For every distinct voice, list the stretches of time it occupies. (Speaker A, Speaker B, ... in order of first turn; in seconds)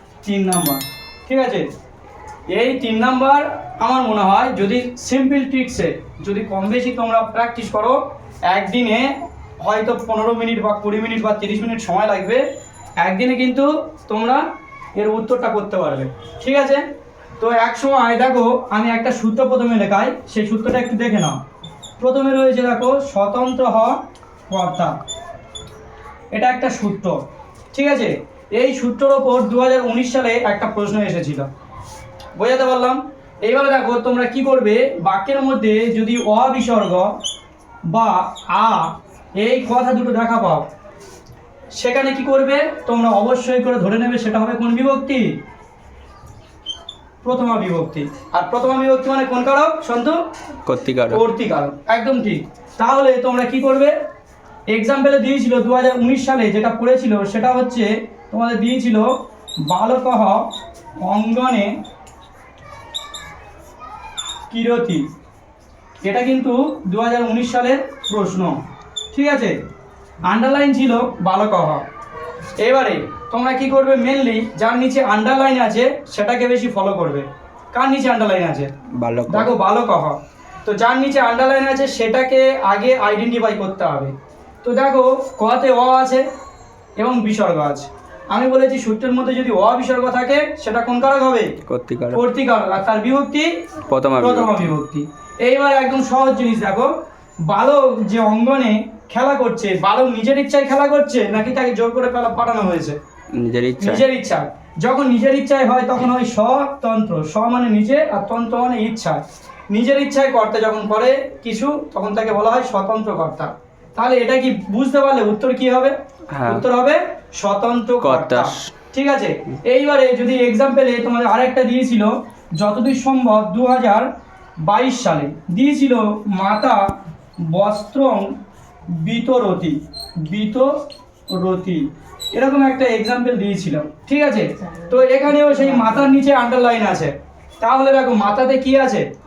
Speaker A: 0.2-1.7, 2.5-12.4, 13.0-14.4, 14.9-16.8, 17.4-21.4, 22.0-24.9, 26.3-27.2, 27.7-31.5, 32.4-37.1, 37.9-40.7, 41.8-45.3, 47.2-50.2, 51.1-53.9, 54.7-59.1, 59.7-60.5, 61.0-61.7, 64.5-65.0, 66.0-68.6, 69.1-69.6, 70.3-71.8, 72.6-78.7, 79.3-86.2, 87.0-91.5, 92.1-93.5, 94.2-96.9, 97.5-103.0, 103.8-124.1, 124.6-128.3, 128.9-130.7, 131.3-131.8, 132.3-139.1
Speaker B: 50.6-51.2, 79.0-79.5, 91.7-92.2, 93.9-94.7, 103.3-104.0, 116.3-116.7, 118.0-118.7